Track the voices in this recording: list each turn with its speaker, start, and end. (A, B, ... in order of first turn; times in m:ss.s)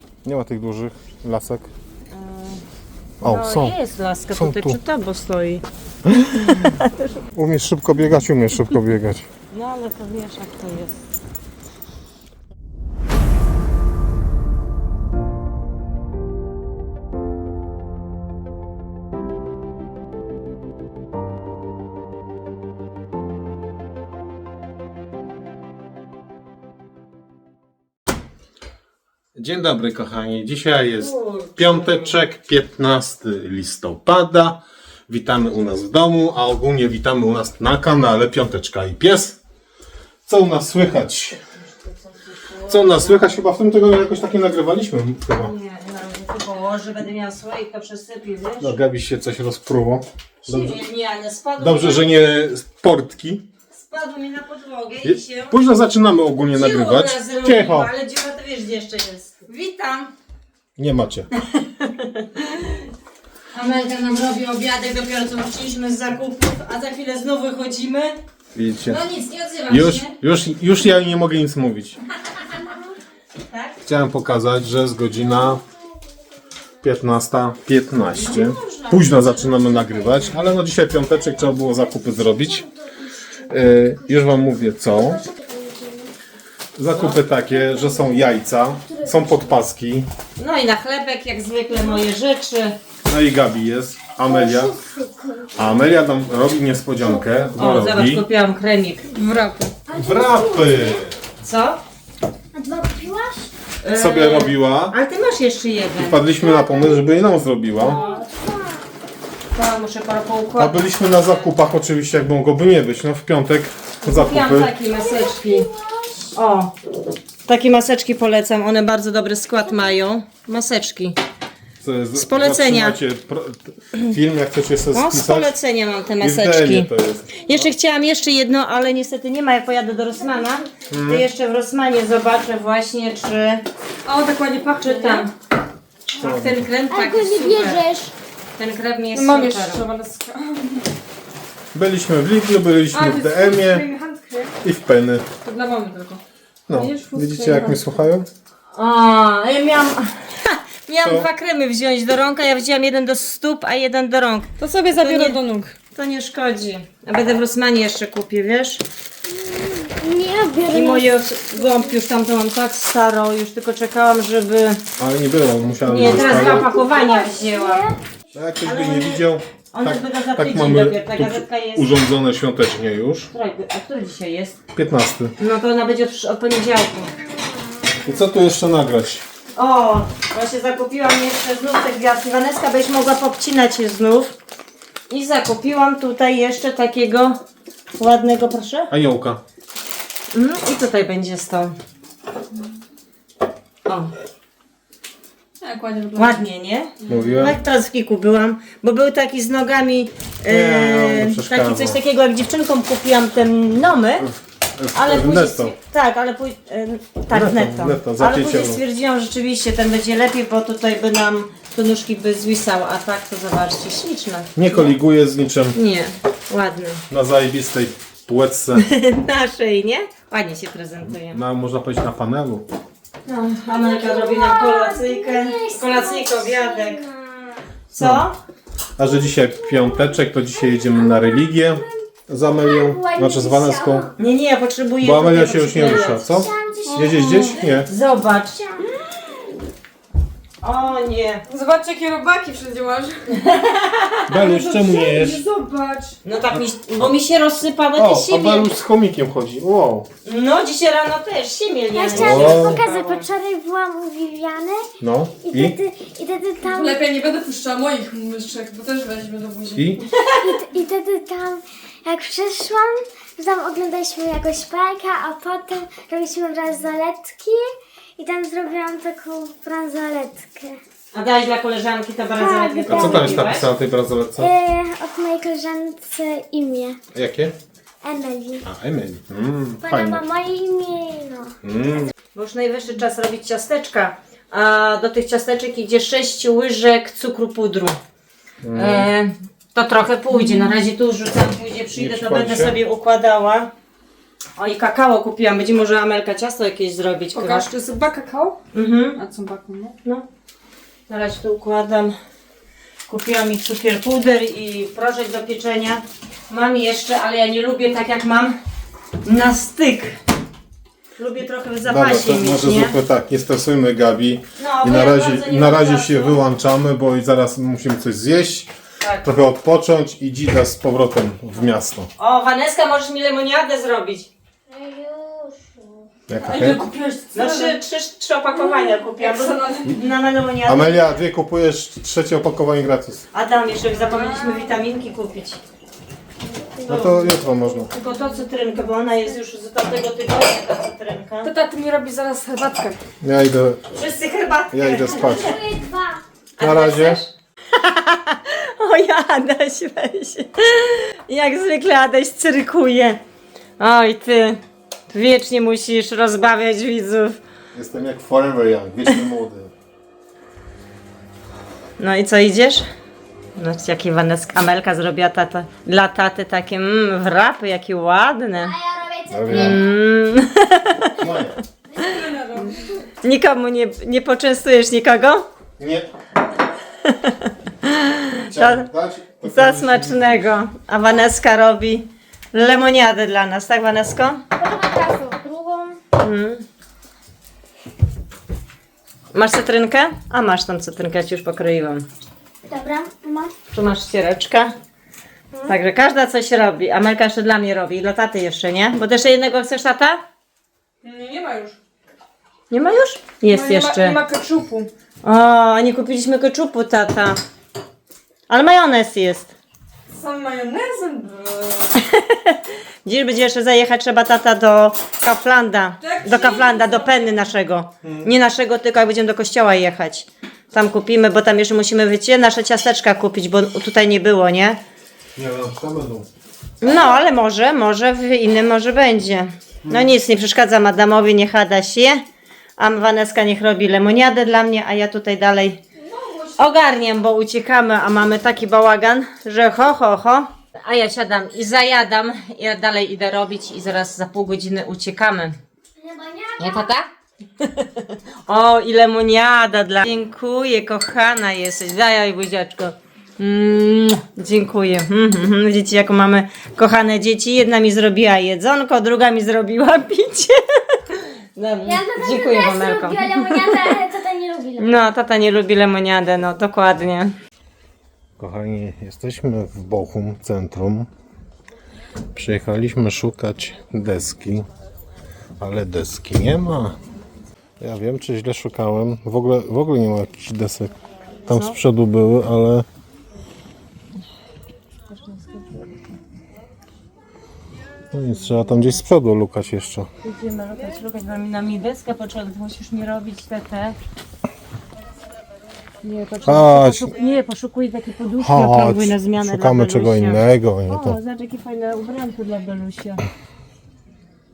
0:00.2-0:01.7 A
0:02.1-0:02.6 B
0:03.2-0:03.8 A
0:03.2-0:05.6 B
0:04.3-0:04.8 A
0:06.0-0:06.7 A
0:06.4-0:07.2 B
0:07.3-0:09.3 A
0:09.5-0:11.0 B
0:29.3-0:39.4 A
0:31.0-0:32.2 B
0:40.3-0:41.4 A
0:41.7-0:43.2 B
0:42.7-0:45.5 A
0:45.3-0:48.7 B
0:48.6-0:50.8 A
0:50.4-0:52.1 B
0:51.6-0:53.4 A
0:53.7-0:55.6 B
0:55.0-0:57.9 A
0:56.5-1:00.1 B
1:00.8-1:01.3 A
1:01.4-1:02.9 B
1:03.5-1:08.2 B
1:08.5-1:09.0 A
1:08.8-1:10.1 B
1:09.7-1:12.0 A
1:13.5-1:13.8 B
1:13.8-1:15.6 A
1:16.8-1:22.7 A
1:18.1-1:20.5 B
1:22.0-1:24.1 C
1:23.5-1:25.2 A
1:24.9-1:26.1 C
1:26.8-1:30.1 A
1:26.9-1:27.2 B
1:27.8-1:28.0 C
1:30.4-1:32.8 B
1:33.0-1:34.8 A
1:34.2-1:35.6 C
1:35.5-1:38.2 A
1:37.6-1:39.1 B
1:39.1-1:39.7 D
1:39.8-1:41.0 C
1:39.9-1:41.2 A
1:41.4-1:41.8 B
1:42.5-1:43.5 C
1:43.8-1:46.2 B
1:43.9-1:44.9 A
1:46.0-1:48.0 A
1:46.4-1:47.0 C
1:47.8-1:48.2 B
1:47.9-1:48.8 C
1:49.5-1:51.2 B
1:50.6-1:54.7 A
1:54.0-1:55.7 B
1:55.0-1:56.3 C
1:56.3-1:56.7 B
1:57.4-2:01.2 B
2:01.8-2:05.5 A
2:02.1-2:03.0 B
2:04.9-2:13.6 B
2:06.2-2:07.5 A
2:10.9-2:11.2 A
2:14.0-2:15.3 D
2:14.8-2:15.3 B
2:16.1-2:17.8 B
2:16.2-2:16.7 A
2:16.9-2:18.1 C
2:18.6-2:19.8 B
2:19.1-2:20.9 D
2:21.7-2:23.9 A
2:22.9-2:24.5 D
2:24.6-2:25.2 A
2:25.4-2:26.2 D
2:26.7-2:28.3 A
2:26.8-2:27.9 D
2:28.7-2:35.4 B
2:31.0-2:31.3 A
2:34.6-2:35.7 D
2:35.9-2:38.8 B
2:39.3-2:41.1 C
2:40.7-2:44.8 B
2:45.0-2:46.8 A
2:45.8-2:47.9 B
2:46.7-2:47.9 C
2:48.3-2:53.3 A
2:48.6-2:51.9 B
2:53.3-2:54.6 B
2:54.7-2:55.3 A
2:55.4-2:57.1 B
2:58.0-2:59.2 A
2:59.5-3:04.3 B
3:05.1-3:07.4 B
3:07.9-3:08.9 B
3:08.9-3:09.4 A
3:10.3-3:11.7 B
3:13.8-3:14.1 B
3:15.6-3:16.4 D
3:16.2-3:24.3 B
3:17.0-3:17.3 D
3:17.1-3:17.6 A
3:20.5-3:22.0 A
3:24.7-3:25.7 A
3:24.9-3:34.9 B
3:27.3-3:28.8 A
3:34.6-3:35.8 A
3:35.7-3:37.0 B
3:37.1-3:38.8 A
3:38.7-3:41.4 B
3:41.0-3:42.6 A
3:43.2-3:47.0 B
3:43.7-3:47.6 C
3:47.9-3:48.2 A
3:47.9-3:48.4 B
3:49.0-3:54.1 A
3:50.8-3:51.8 C
3:52.6-3:54.1 C
3:54.2-3:56.3 B
3:55.0-3:57.9 A
3:56.3-3:57.5 C
3:56.9-3:57.6 D
3:57.7-3:58.8 B
4:00.6-4:01.4 B
4:01.5-4:03.2 D
4:03.3-4:04.3 B
4:04.3-4:05.4 A
4:04.4-4:06.2 D
4:06.2-4:08.7 B
4:06.5-4:07.1 A
4:08.0-4:10.1 A
4:10.2-4:13.2 B
4:11.9-4:14.9 C
4:12.1-4:12.8 A
4:15.0-4:15.8 A
4:15.4-4:17.0 C
4:16.6-4:19.8 D
4:19.7-4:20.0 A
4:20.1-4:20.5 B
4:20.4-4:30.8 C
4:31.1-4:33.7 B
4:32.4-4:33.2 C
4:32.8-4:34.5 A
4:34.4-4:37.0 C
4:37.1-4:37.5 A
4:38.0-4:38.6 C
4:38.6-4:40.2 A
4:39.8-4:41.6 C
4:41.6-4:42.1 A
4:42.3-4:48.0 B
4:48.6-4:49.1 A
4:48.7-4:53.7 B
4:51.9-4:52.8 A
4:54.6-4:57.6 B
4:57.3-4:58.6 D
4:58.7-4:59.2 B
4:59.1-5:00.0 D
5:01.1-5:02.2 B
5:03.1-5:08.6 B
5:09.2-5:10.2 B
5:11.2-5:13.0 B
5:11.8-5:18.7 A
5:14.6-5:16.4 B
5:19.0-5:19.3 B
5:19.2-5:22.1 A
5:22.2-5:24.3 B
5:24.7-5:26.1 C
5:26.3-5:26.8 A
5:26.4-5:27.8 D
5:27.3-5:31.2 B
5:28.8-5:30.0 D
5:30.6-5:33.2 A
5:33.3-5:35.6 B
5:34.1-5:34.5 D
5:36.8-5:37.9 A
5:36.9-5:37.2 B
5:37.9-5:41.5 B
5:41.4-5:43.0 D
5:43.2-5:43.8 A
5:43.9-5:45.6 B
5:44.7-5:45.6 A
5:45.4-5:46.2 C
5:46.6-5:53.2 B
5:46.6-5:47.2 A
5:53.8-5:57.4 B
5:57.7-5:59.7 A
6:02.0-6:02.8 B
6:03.5-6:08.8 B
6:08.8-6:09.6 C
6:09.2-6:09.8 A
6:09.5-6:11.2 B
6:11.2-6:11.6 A
6:12.0-6:13.0 D
6:13.2-6:15.4 B
6:15.8-6:16.1 A
6:17.0-6:18.8 B
6:18.5-6:20.4 A
6:19.4-6:24.4 B
6:24.6-6:26.0 C
6:26.2-6:26.6 B
6:29.3-6:32.0 B
6:32.7-6:33.5 C
6:33.7-6:34.7 B
6:35.6-6:40.2 B
6:41.0-6:41.8 D
6:42.7-6:44.2 B
6:43.5-6:44.9 D
6:45.2-6:47.4 B
6:48.5-6:49.5 B
6:50.1-6:52.0 D
6:51.9-7:04.8 B
6:56.0-6:57.2 D
6:58.0-6:58.3 A
7:05.4-7:06.3 A
7:06.8-7:12.2 B
7:09.8-7:10.1 A
7:12.8-7:15.8 B
7:16.6-7:25.6 B
7:26.0-7:26.9 C
7:26.6-7:27.1 B
7:27.6-7:44.0 B
7:41.8-7:44.9 C
7:44.8-7:47.4 B
7:48.4-7:51.1 A
7:52.3-7:54.6 A
7:55.6-7:57.0 A
7:57.8-8:00.9 A
8:01.5-8:02.8 A
8:01.5-8:01.8 B
8:05.1-8:06.0 B
8:08.1-8:10.1 A
8:10.2-8:14.0 B
8:16.0-8:23.2 B
8:16.4-8:17.1 A
8:18.4-8:21.2 A